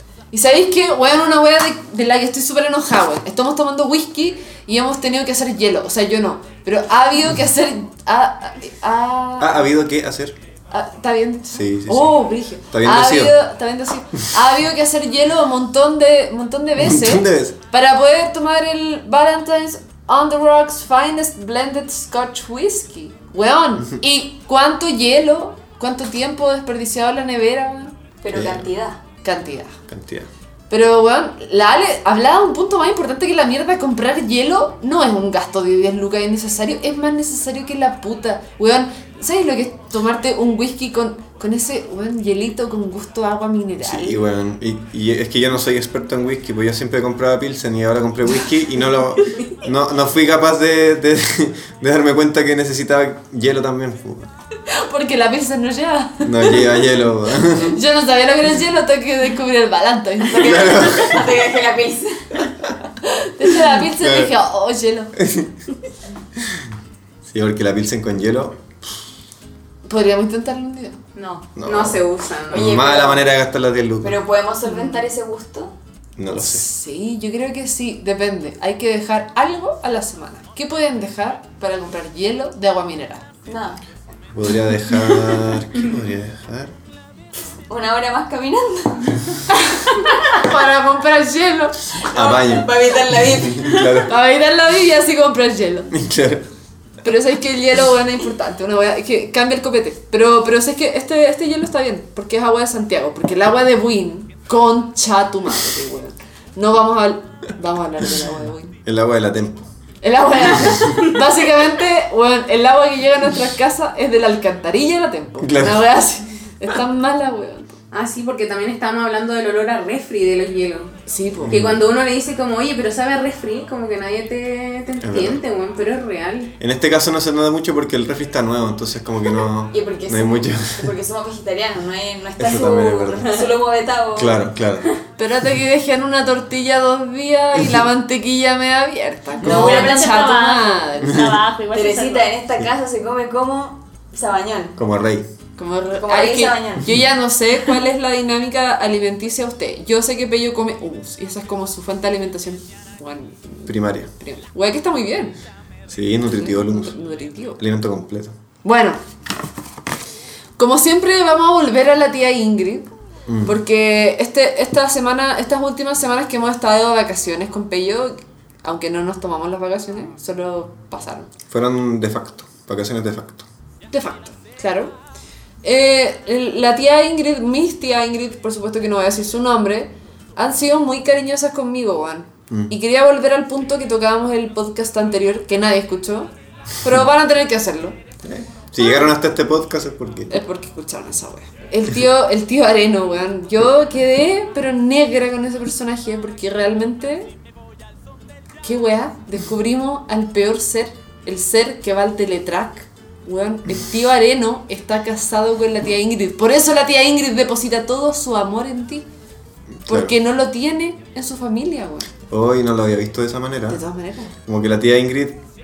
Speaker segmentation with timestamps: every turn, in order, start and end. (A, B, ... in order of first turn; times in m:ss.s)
0:00.3-0:09.7 A
0:09.4-0:10.4 B
0:10.7-0:27.9 A
0:11.5-0:13.4 B
0:16.8-0:17.6 B
0:28.2-0:29.0 C
0:28.3-0:28.7 B
0:29.2-0:29.8 A
0:29.9-0:30.3 B
0:30.7-0:44.2 A
0:43.8-0:54.3 B
0:54.7-0:56.9 A
0:56.2-0:57.8 B
0:57.4-1:00.9 A
1:00.3-1:02.5 C
1:00.3-1:01.3 B
1:03.4-1:05.1 A
1:04.0-1:04.3 B
1:05.2-1:05.5 B
1:07.3-1:08.6 B
1:09.8-1:11.0 A
1:11.2-1:12.6 D
1:11.6-1:14.2 B
1:12.5-1:13.3 C
1:14.0-1:15.7 C
1:14.6-1:15.0 A
1:16.2-1:16.6 B
1:16.3-1:23.2 A
1:23.4-1:23.8 C
1:24.3-1:26.7 B
1:27.7-1:29.2 C
1:30.2-1:31.8 A
1:32.0-1:34.0 C
1:32.1-1:34.1 B
1:34.0-1:35.9 A
1:35.9-1:36.4 B
1:37.0-1:48.8 A
1:48.8-1:49.7 B
1:50.0-1:57.8 A
1:50.5-1:50.8 B
1:55.4-1:55.8 B
1:57.9-2:00.9 D
2:01.1-2:01.6 A
2:01.4-2:01.8 B
2:01.5-2:06.5 D
2:05.0-2:05.4 B
2:06.6-2:10.9 B
2:09.7-2:14.5 C
2:12.4-2:13.4 B
2:14.1-2:14.9 B
2:15.2-2:21.2 A
2:19.4-2:19.9 B
2:19.4-2:20.4 C
2:19.5-2:22.3 E
2:21.7-2:24.8 C
2:24.8-2:25.2 B
2:25.6-2:35.3 A
2:26.0-2:26.9 C
2:33.6-2:34.1 B
2:35.9-2:37.0 B
2:36.3-2:37.6 A
2:37.6-2:38.3 B
2:38.6-2:39.0 A
2:40.6-2:42.9 A
2:43.3-2:43.6 B
2:43.4-2:51.3 A
2:51.5-2:53.4 B
2:53.9-2:54.9 A
2:55.6-3:08.0 A
3:08.2-3:10.3 B
3:08.8-3:09.0 A
3:10.3-3:17.3 A
3:18.6-3:29.1 A
3:29.8-3:30.1 B
3:29.9-3:32.1 A
3:32.3-3:33.8 B
3:33.7-3:34.3 A
3:34.4-3:35.4 B